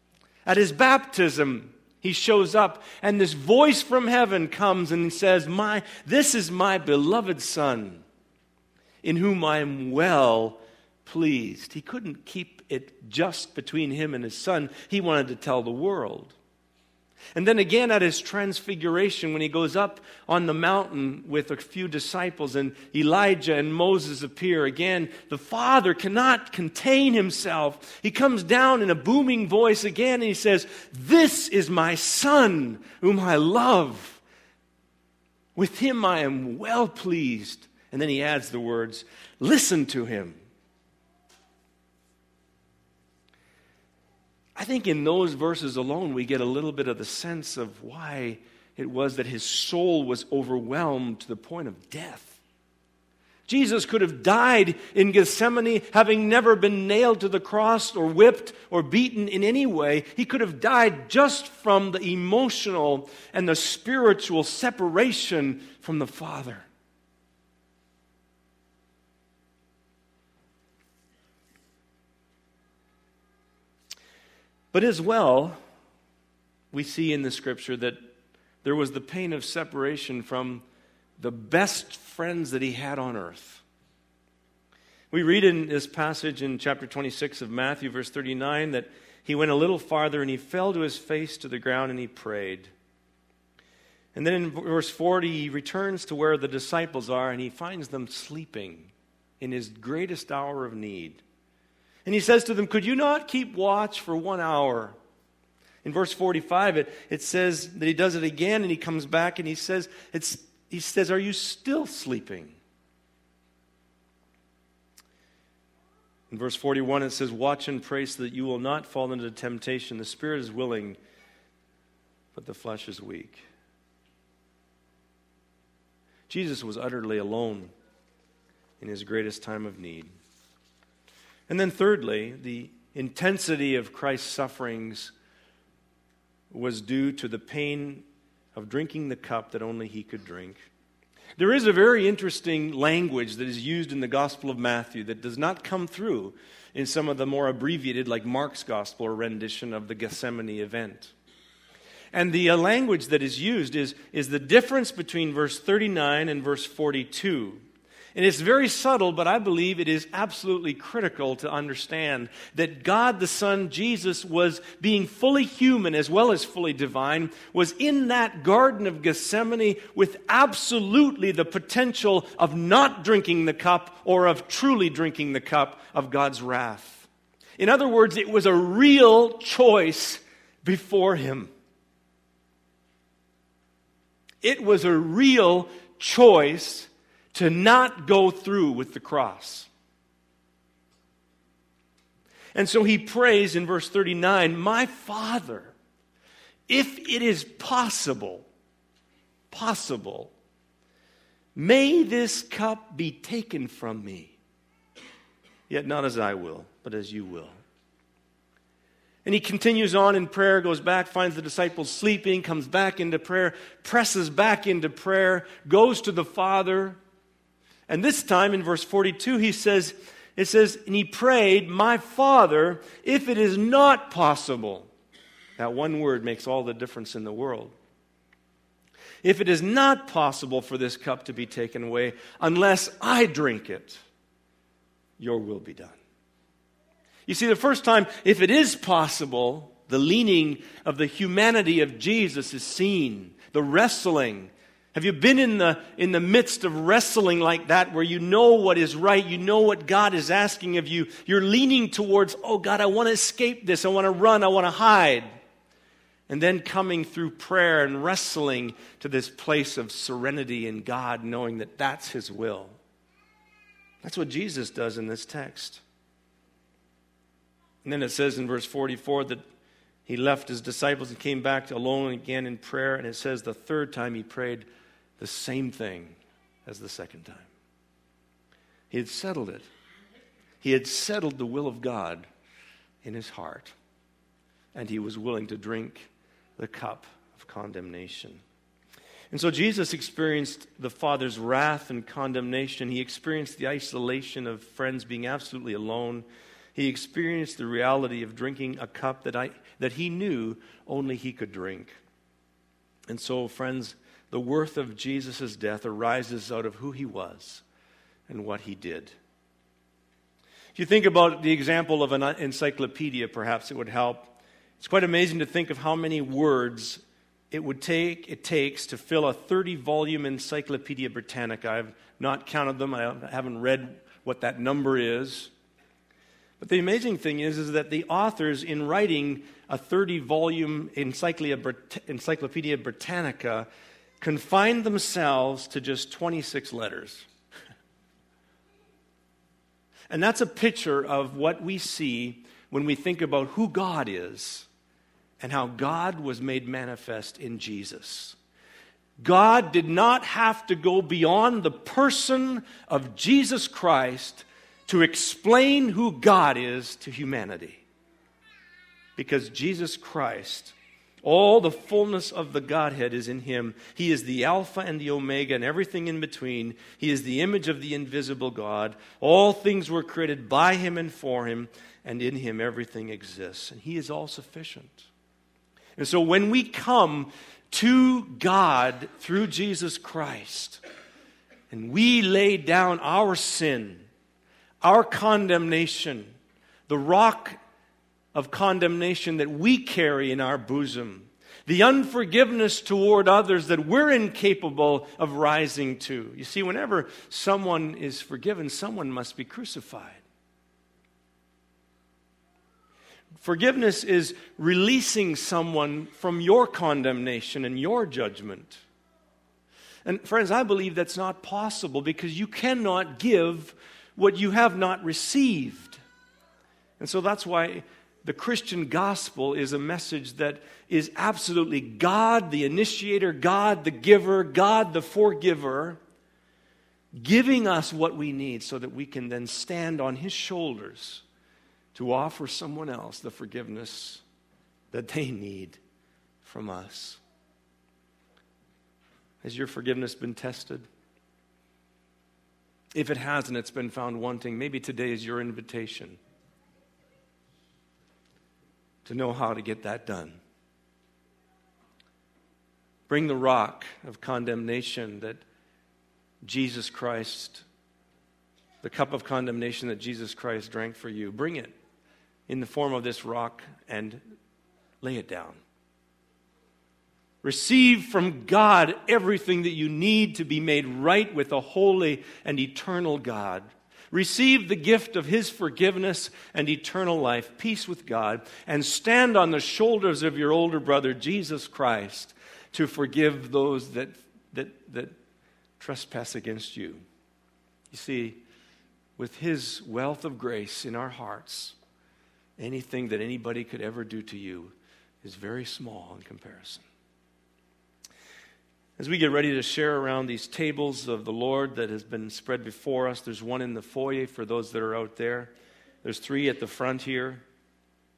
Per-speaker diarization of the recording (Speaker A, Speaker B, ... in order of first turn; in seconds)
Speaker A: 0.5-8.0, 9.0-16.4, 17.4-34.2, 35.5-40.4, 44.6-52.4, 53.5-66.7, 74.7-75.6, 76.7-78.0, 78.6-80.6, 81.2-83.6, 85.1-92.7, 94.1-101.2, 102.0-105.0, 105.8-112.6, 116.3-121.0, 122.3-123.4, 126.3-127.7, 128.8-130.1, 131.5-135.1, 136.5-140.6, 141.4-151.1, 152.1-157.6, 158.2-181.5, 184.4-189.7, 192.6-195.8, 196.7-198.5, 199.5-200.3, 201.6-204.4, 205.7-207.6, 209.2-217.0, 217.9-224.9, 225.6-227.7, 229.2-234.0, 235.2-236.0, 237.3-255.3, 256.3-262.8, 264.0-265.8, 267.8-269.4, 270.1-274.7, 275.2-277.5, 278.9-279.7, 280.6-282.3, 283.0-283.8, 284.7-288.4, 289.3-302.0, 303.1-307.6, 308.3-309.1, 310.8-317.0, 317.5-325.5, 326.6-333.7, 334.2-337.3, 340.1-344.7, 345.4-348.4, 349.2-357.8, 359.2-375.1, 376.0-380.8, 381.7-384.1, 384.8-386.3, 386.9-387.6, 388.3-400.2, 403.4-408.8, 410.1-416.0, 417.0-426.0, 427.2-431.2, 431.9-434.2, 434.9-435.8, 436.4-437.2, 439.4-440.9, 442.9-446.2, 449.1-450.4, 453.1-455.4, 456.4-457.7, 458.8-461.7, 462.5-464.2, 465.0-465.6, 467.4-485.1, 485.8-487.0, 487.9-488.4, 489.2-491.8, 492.6-496.8, 499.0-507.4